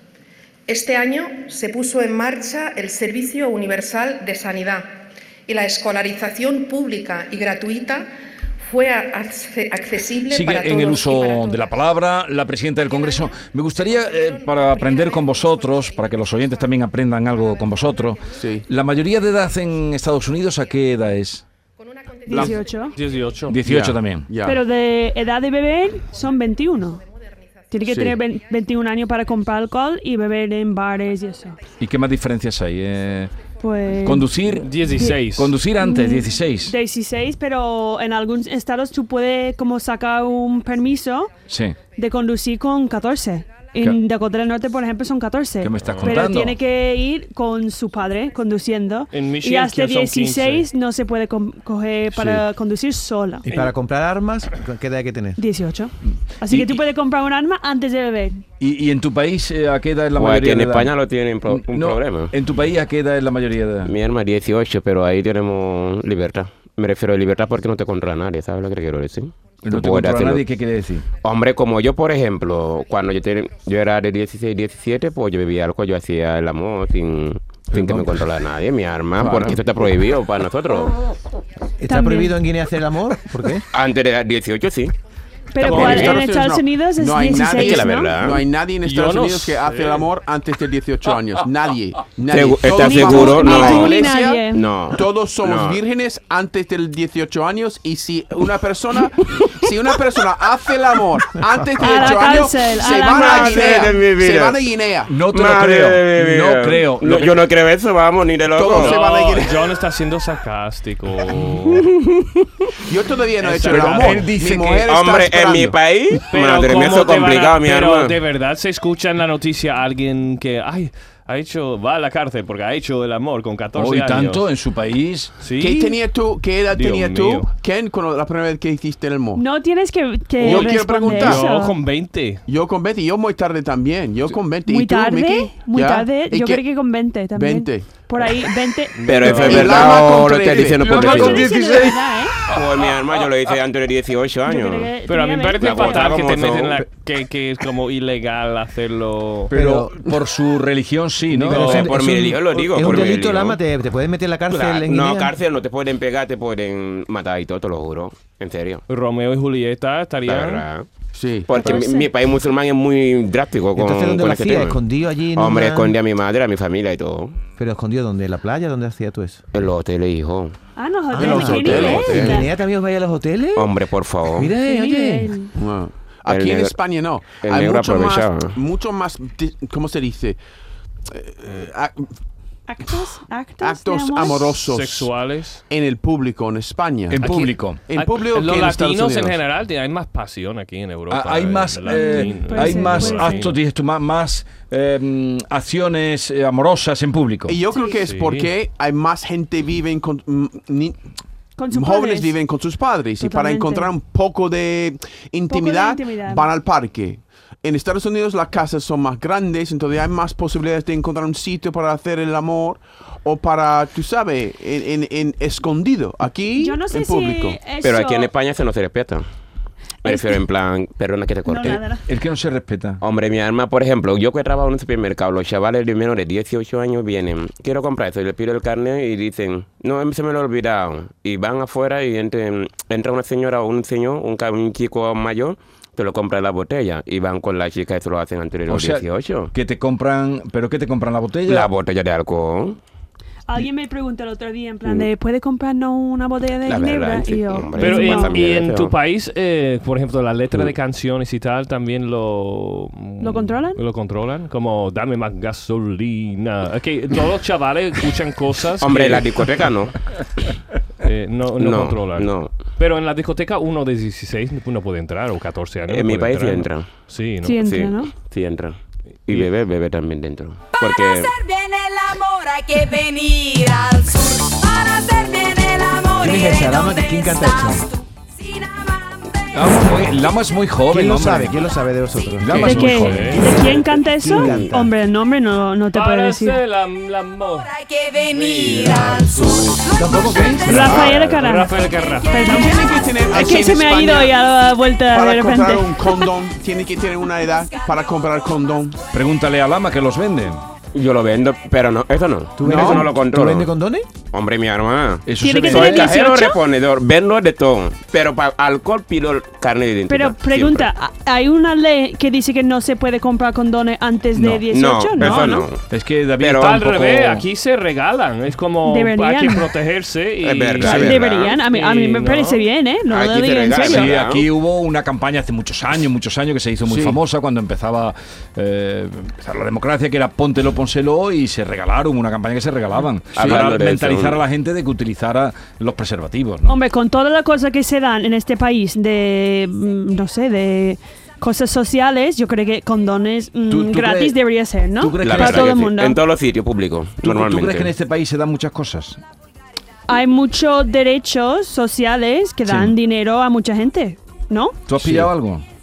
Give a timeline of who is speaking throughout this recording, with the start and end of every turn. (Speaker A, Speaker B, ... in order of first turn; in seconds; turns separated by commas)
Speaker A: 0.7-8.1, Speaker A: 8.6-12.1, Speaker B: 10.3-21.4, Speaker A: 12.7-19.9, Speaker C: 18.3-18.7, Speaker A: 20.5-21.1, Speaker A: 21.8-23.5, Speaker D: 22.3-23.0, Speaker C: 22.3-22.6, Speaker E: 22.9-23.6, Speaker B: 23.5-24.3, Speaker C: 23.6-24.6, Speaker D: 24.4-27.0, Speaker A: 26.1-28.4, Speaker D: 27.7-31.6, Speaker C: 27.9-28.2, Speaker B: 31.8-33.3, Speaker D: 33.6-41.4, Speaker B: 34.0-36.7, Speaker E: 34.5-35.5, Speaker B: 41.5-41.8, Speaker D: 41.9-53.5, Speaker B: 45.6-46.6, Speaker E: 45.9-46.2, Speaker E: 49.1-50.7, Speaker F: 53.4-55.4, Speaker D: 55.4-58.4, Speaker B: 56.5-56.8, Speaker B: 58.6-60.9, Speaker G: 60.1-62.3, Speaker B: 61.5-63.9, Speaker G: 63.8-70.4, Speaker B: 69.6-71.1, Speaker G: 71.2-81.0, Speaker B: 77.7-78.2, Speaker C: 79.2-79.8, Speaker F: 81.8-83.6, Speaker D: 81.8-82.4, Speaker G: 83.7-84.9, Speaker D: 85.5-88.2, Speaker C: 85.6-105.2, Speaker E: 85.7-86.1, Speaker G: 85.7-86.0, Speaker G: 87.5-88.4, Speaker E: 88.8-90.1, Speaker G: 92.3-94.0, Speaker D: 92.7-94.8, Speaker G: 94.5-95.8, Speaker D: 101.8-103.9, Speaker G: 102.9-104.6, Speaker B: 105.1-107.3, Speaker G: 105.3-109.0, Speaker C: 108.5-109.6, Speaker E: 108.7-111.8, Speaker G: 111.7-112.4, Speaker C: 112.9-115.8, Speaker E: 113.4-114.3, Speaker B: 113.7-114.8, Speaker G: 114.9-118.2, Speaker E: 116.3-124.4, Speaker B: 123.8-125.3, Speaker E: 125.4-126.0, Speaker C: 125.5-129.4, Speaker E: 126.7-127.5, Speaker D: 129.3-131.7, Speaker C: 130.4-131.4, Speaker E: 130.4-132.4, Speaker C: 132.5-136.6, Speaker D: 134.6-139.9, Speaker C: 137.3-137.9, Speaker E: 139.0-139.9, Speaker G: 139.0-141.5, Speaker C: 139.3-140.9, Speaker B: 140.6-142.6, Speaker D: 140.9-142.4, Speaker G: 142.5-144.9, Speaker D: 144.4-146.2, Speaker E: 145.1-149.5, Speaker G: 145.6-146.8, Speaker B: 149.5-151.9, Speaker F: 149.5-150.0, Speaker F: 151.3-155.3, Speaker E: 151.5-151.9, Speaker G: 151.6-153.6, Speaker G: 154.5-158.8, Speaker E: 158.9-160.6, Speaker G: 160.2-160.9, Speaker C: 161.1-161.5, Speaker G: 161.5-164.8, Speaker D: 161.5-162.1, Speaker F: 163.8-165.9, Speaker G: 165.3-167.4, Speaker F: 167.6-169.4, Speaker G: 169.5-170.5, Speaker D: 170.8-172.5, Speaker F: 171.1-173.7, Speaker C: 171.1-172.4, Speaker G: 173.6-174.5, Speaker F: 174.3-175.3, Speaker D: 174.6-175.5, Speaker C: 175.6-180.4, Speaker G: 176.3-178.6, Speaker C: 181.1-182.1, Speaker D: 182.7-184.6, Speaker C: 183.6-185.1, Speaker E: 184.6-185.6, Speaker C: 185.7-189.4, Speaker B: 187.1-187.8, Speaker E: 187.9-193.6, Speaker B: 191.1-197.6, Speaker D: 191.8-193.5, Speaker C: 197.5-201.0, Speaker D: 197.7-198.0, Speaker E: 197.9-198.5, Speaker D: 201.6-202.3, Speaker C: 201.7-217.6, Speaker D: 203.2-203.9, Speaker D: 205.5-206.5, Speaker D: 216.6-218.3, Speaker G: 217.8-219.2, Speaker G: 220.0-221.9, Speaker D: 220.0-220.4, Speaker D: 221.4-222.0, Speaker B: 222.1-223.0, Speaker G: 223.0-239.5, Speaker B: 238.7-241.7, Speaker G: 241.5-242.8, Speaker D: 243.5-248.4, Speaker G: 246.7-248.9, Speaker E: 247.8-259.3, Speaker D: 253.2-253.8, Speaker G: 258.8-259.9, Speaker E: 261.0-267.6, Speaker G: 261.6-262.5, Speaker G: 265.9-266.9, Speaker D: 267.4-268.1, Speaker G: 267.6-271.3, Speaker H: 270.7-280.4, Speaker F: 276.2-277.9, Speaker B: 279.5-281.6, Speaker F: 280.9-282.9, Speaker B: 282.4-283.4, Speaker C: 282.5-282.9, Speaker D: 282.6-286.6, Speaker E: 282.6-283.9, Speaker F: 284.2-284.9, Speaker G: 284.4-284.8, Speaker E: 285.9-287.7, Speaker H: 287.5-290.5, Speaker E: 288.3-289.2, Speaker F: 289.9-291.0, Speaker B: 290.0-290.7, Speaker D: 290.6-296.3, Speaker E: 290.7-292.6, Speaker G: 290.8-291.4, Speaker C: 292.4-294.3, Speaker C: 295.1-299.0, Speaker H: 297.4-298.1, Speaker B: 299.1-300.6, Speaker G: 300.9-303.7, Speaker F: 302.6-304.1, Speaker C: 302.7-303.1, Speaker G: 304.3-310.9, Speaker B: 305.2-306.2, Speaker D: 305.3-306.6, Speaker D: 310.1-315.7, Speaker B: 314.3-314.7, Speaker G: 314.7-315.9, Speaker B: 315.2-317.4, Speaker G: 316.4-316.8, Speaker E: 316.6-322.6, Speaker D: 318.8-319.7, Speaker G: 320.4-321.6, Speaker C: 320.8-321.1, Speaker D: 320.9-324.2, Speaker G: 323.1-324.4, Speaker B: 323.8-336.7, Speaker C: 326.8-327.2, Speaker G: 333.3-334.4, Speaker C: 333.4-333.6, Speaker D: 336.7-346.2, Speaker B: 343.7-344.4, Speaker B: 345.0-345.8, Speaker G: 345.2-347.9, Speaker B: 347.2-349.2, Speaker D: 350.1-354.8, Speaker B: 352.6-352.9, Speaker B: 354.9-355.6